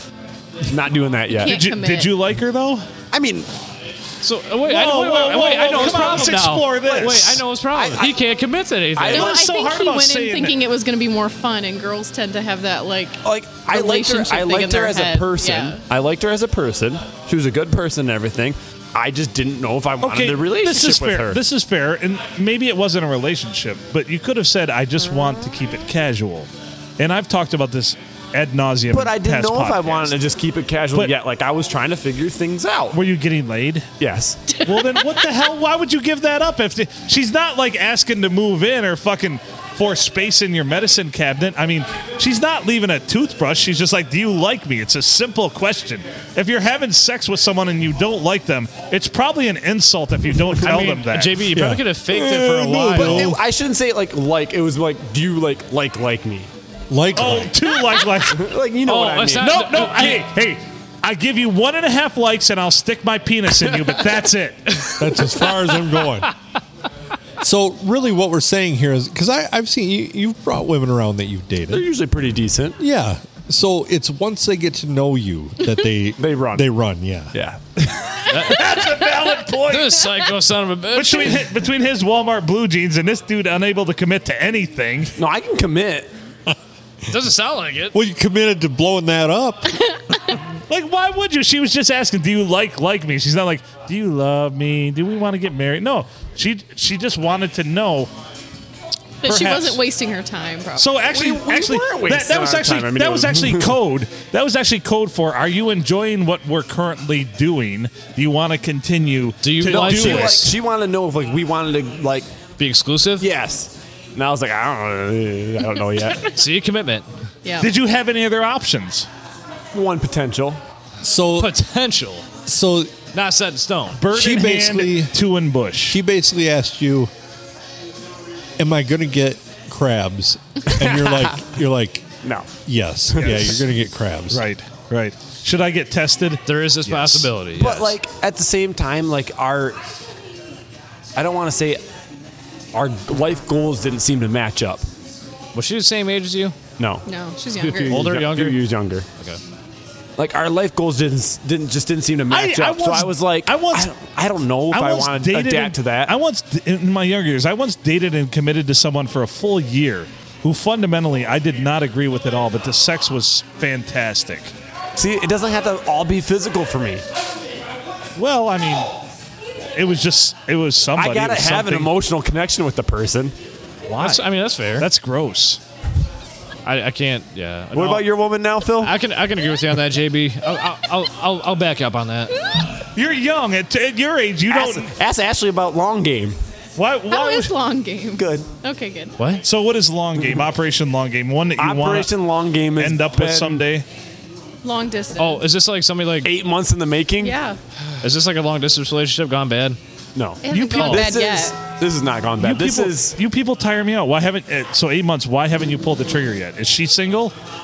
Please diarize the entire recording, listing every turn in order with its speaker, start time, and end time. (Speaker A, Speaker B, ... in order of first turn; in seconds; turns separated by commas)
Speaker A: 0.6-1.6, Speaker B: 1.3-2.2, Speaker C: 1.4-2.9, Speaker A: 3.1-3.5, Speaker D: 4.2-9.2, Speaker C: 4.7-7.4, Speaker A: 7.7-8.2, Speaker A: 8.9-9.4, Speaker C: 9.1-10.6, Speaker B: 9.1-15.8, Speaker A: 13.2-21.4, Speaker C: 20.0-30.1, Speaker A: 28.9-33.0, Speaker C: 32.9-33.9, Speaker A: 34.0-34.6, Speaker C: 34.6-51.5, Speaker A: 50.6-51.0, Speaker D: 50.6-53.3, Speaker E: 51.5-53.4, Speaker A: 52.9-56.5, Speaker E: 56.9-57.6, Speaker C: 57.1-58.5, Speaker A: 58.3-59.6, Speaker D: 58.8-60.3, Speaker C: 59.4-64.9, Speaker D: 64.8-66.3, Speaker E: 65.0-66.3, Speaker E: 67.4-71.9, Speaker A: 71.7-72.8, Speaker E: 72.8-77.3, Speaker A: 76.2-76.7, Speaker A: 77.3-77.6, Speaker C: 77.8-80.3, Speaker D: 78.3-78.8, Speaker D: 79.6-81.5, Speaker C: 80.9-85.2, Speaker A: 85.2-86.1, Speaker D: 87.1-88.0, Speaker E: 87.9-89.9, Speaker C: 90.7-98.1, Speaker B: 99.2-100.9, Speaker C: 99.2-99.8, Speaker C: 100.8-110.5, Speaker A: 101.1-103.7, Speaker D: 109.4-110.5, Speaker A: 109.6-112.3, Speaker D: 112.6-113.3, Speaker A: 113.2-116.3, Speaker D: 116.2-117.1, Speaker B: 117.5-117.7, Speaker C: 117.6-119.1, Speaker A: 119.7-120.6, Speaker E: 121.0-121.5, Speaker D: 121.4-122.3, Speaker E: 122.5-123.0, Speaker D: 123.1-124.0, Speaker C: 124.0-126.0, Speaker E: 124.1-125.1, Speaker E: 125.9-127.1, Speaker E: 128.6-132.1, Speaker A: 130.7-131.4, Speaker A: 132.2-132.5, Speaker E: 132.7-134.5, Speaker A: 133.1-133.7, Speaker C: 134.3-137.3, Speaker D: 136.5-137.9, Speaker A: 137.6-139.8, Speaker A: 141.2-141.8, Speaker A: 142.7-144.9, Speaker D: 145.5-146.6, Speaker A: 146.8-147.1, Speaker B: 147.1-148.1, Speaker A: 147.6-149.1, Speaker D: 147.7-149.4, Speaker A: 150.2-156.1, Speaker C: 152.3-153.9, Speaker C: 154.7-164.5, Speaker A: 165.0-167.0, Speaker C: 168.2-168.9, Speaker C: 169.8-171.9, Speaker A: 171.0-173.3, Speaker C: 173.9-174.2, Speaker D: 174.0-174.9, Speaker C: 174.8-175.6, Speaker D: 176.7-178.1, Speaker A: 177.7-179.0, Speaker D: 178.8-182.4, Speaker C: 182.9-184.9, Speaker A: 184.5-186.4, Speaker C: 186.8-187.5, Speaker B: 187.1-189.2, Speaker A: 188.2-188.5, Speaker D: 189.2-189.4, Speaker C: 189.4-192.1, Speaker A: 191.6-193.6, Speaker C: 192.8-193.9, Speaker B: 194.6-195.5, Speaker D: 195.2-196.3, Speaker A: 196.2-197.4, Speaker B: 197.2-197.6, Speaker D: 198.0-199.8, Speaker A: 200.2-203.2, Speaker B: 200.4-201.6, Speaker C: 200.5-201.1, Speaker C: 202.4-207.3